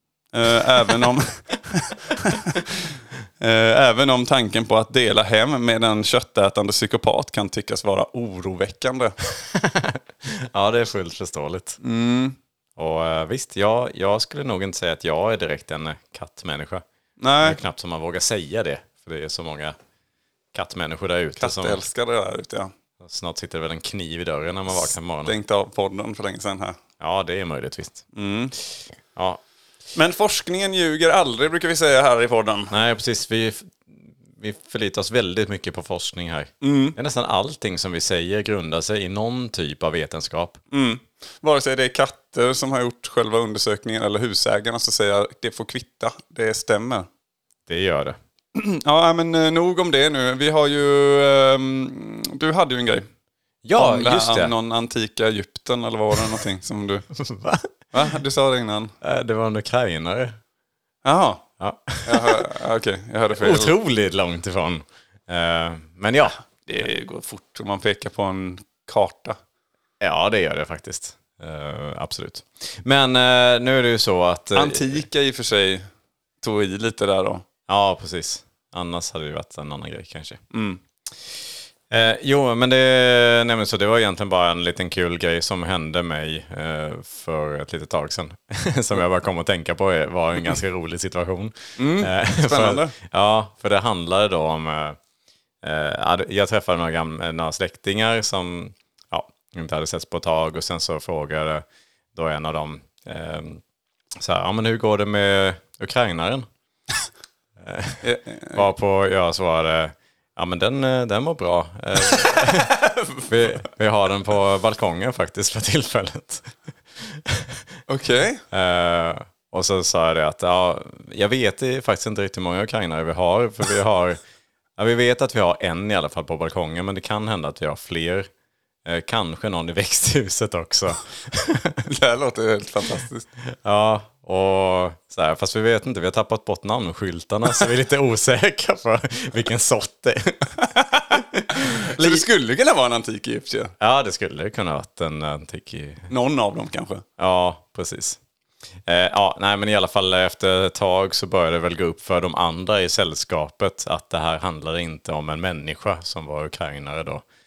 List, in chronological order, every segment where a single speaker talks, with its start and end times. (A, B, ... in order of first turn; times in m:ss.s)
0:00.3-0:09.1 A
0:09.5-0:11.8 B
0:11.8-0:12.4 A
0:12.8-0:16.8 B
0:17.2-0:17.6 A
0:17.4-0:19.8 B
0:20.5-0:21.8 B
0:21.4-0:22.7 A
0:23.0-0:25.3 B
0:24.8-0:26.8 A
0:27.0-0:28.0 B
0:28.1-0:28.5 A
0:29.1-0:29.4 B
0:29.9-0:32.7 A
0:32.7-0:40.6 B
0:36.6-0:37.0 A
0:40.7-0:47.1 A
0:47.7-0:48.2 B
0:48.5-0:53.1 A
0:53.6-0:54.5 B
0:53.8-0:57.0 A
0:57.1-0:57.7 B
0:57.9-0:58.9 A
0:59.0-1:00.4 B
1:01.0-1:01.4 A
1:01.6-1:02.5 B
1:02.0-1:03.7 A
1:03.3-1:06.4 B
1:06.6-1:09.4 A
1:10.0-1:15.0 B
1:14.5-1:15.8 A
1:16.4-1:17.4 A
1:17.7-1:20.4 B
1:20.5-1:20.8 A
1:21.9-1:35.0 B
1:31.8-1:32.9 A
1:35.6-1:43.6 B
1:44.2-1:46.5 B
1:47.6-1:57.6 B
1:48.0-1:48.6 A
1:52.1-1:53.6 A
1:57.9-1:58.4 A
1:58.5-2:04.2 B
2:04.8-2:08.3 B
2:08.8-2:11.8 B
2:11.8-2:13.3 A
2:13.6-2:20.6 B
2:20.6-2:23.7 A
2:21.1-2:22.2 B
2:23.8-2:26.1 B
2:26.1-2:27.0 A
2:27.2-2:28.2 B
2:28.8-2:37.2 B